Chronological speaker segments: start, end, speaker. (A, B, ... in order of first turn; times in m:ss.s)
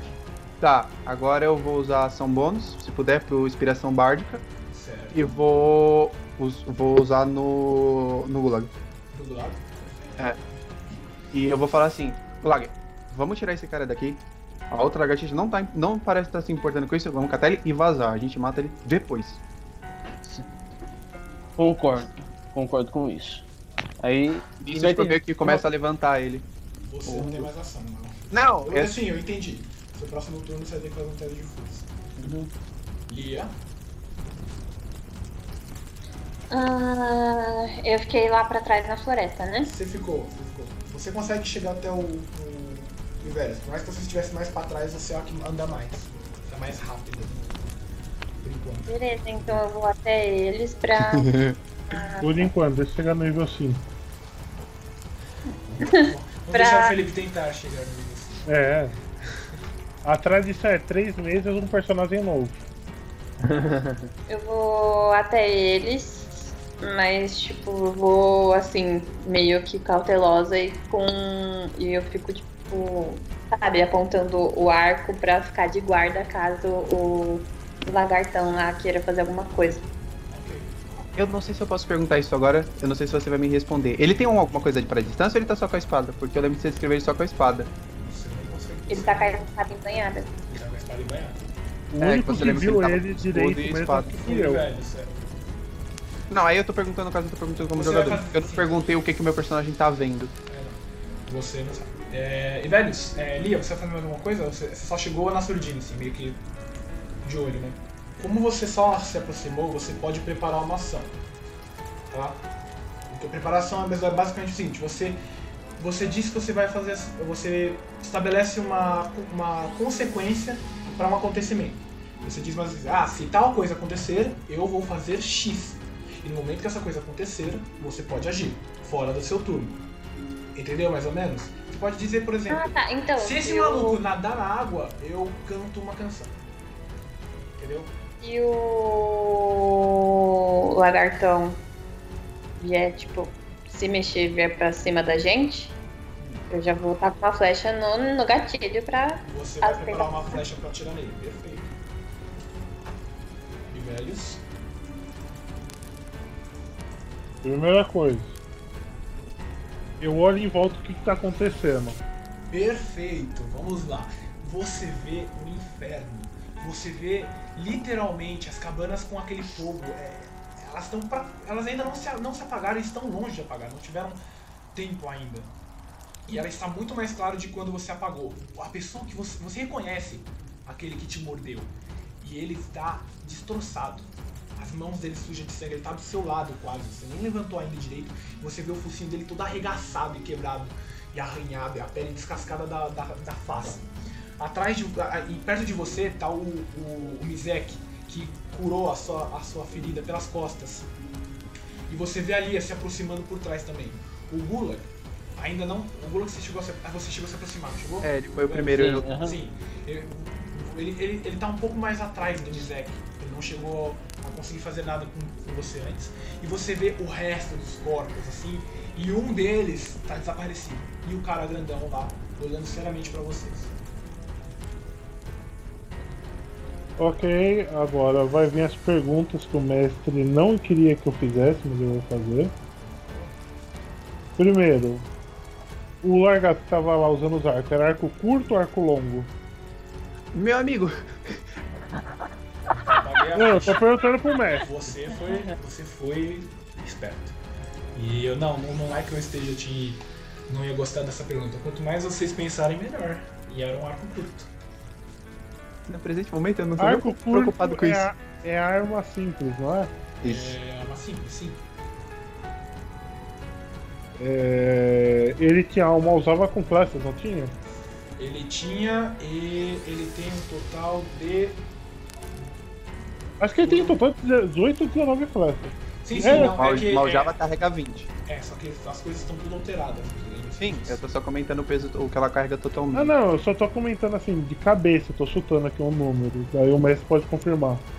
0:00.6-0:04.4 A
0:04.7-0:05.3 B
0:05.1-0:08.7 A
0:09.1-0:10.3 B
0:11.3-0:19.4 A
0:21.6-0:23.4 C
0:24.0-0:25.6 C
0:24.6-0:26.5 A
0:26.8-0:31.9 B
0:27.1-0:27.5 A
0:28.3-0:29.0 A
0:32.2-0:32.5 C
0:33.1-0:33.6 B
0:36.5-0:39.7 D
0:39.6-0:47.5 B
0:48.4-0:49.6 B
0:48.9-0:52.4 D
0:51.0-0:51.6 A
0:52.2-0:53.8 E
0:55.7-0:58.5 B
0:55.8-0:57.0 D
0:58.5-0:59.0 E
1:00.0-1:02.6 E
1:03.4-1:04.1 C
1:04.3-1:19.9 D
1:20.3-1:20.8 B
1:21.2-1:27.7 A
1:27.9-1:29.5 B
1:28.9-1:30.3 D
1:30.5-1:31.4 B
1:31.9-1:34.6 E
1:32.0-1:34.2 A
1:34.2-1:35.2 B
1:36.3-1:40.3 A
1:37.7-1:38.8 B
1:40.5-1:46.4 B
1:47.2-1:51.2 B
1:52.1-1:52.4 B
1:53.1-1:55.2 B
1:55.8-2:09.8 B
2:10.6-2:16.4 B
2:12.5-2:14.0 D
2:17.6-2:17.9 B
2:18.2-2:21.6 D
2:22.6-2:25.8 D
2:26.2-2:26.5 B
2:26.5-2:30.4 D
2:29.2-2:31.8 B
2:33.7-2:34.4 B
2:37.4-2:38.4 E
2:40.0-2:42.0 E
2:42.5-2:54.2 B
2:54.7-2:55.5 B
2:56.3-3:13.9 B
3:14.4-3:20.9 B
3:21.9-3:43.7 B
3:28.0-3:29.1 A
3:28.7-3:29.4 C
3:47.0-3:52.5 E
3:54.4-3:55.1 E
3:56.0-3:59.3 E
4:00.3-4:01.4 A
4:02.7-4:03.9 B
4:03.4-4:04.7 E
4:04.5-4:07.4 B
4:07.9-4:14.5 B
4:15.9-4:18.1 A
4:16.8-4:19.9 E
4:20.2-4:20.6 A
4:20.2-4:21.6 B
4:24.2-4:27.6 E
4:28.2-4:31.6 B
4:33.4-4:36.6 E
4:33.6-4:34.0 B
4:36.0-4:37.4 B
4:36.3-4:38.1 A
4:38.3-4:41.0 B
4:40.6-4:43.1 A
4:42.9-4:47.8 E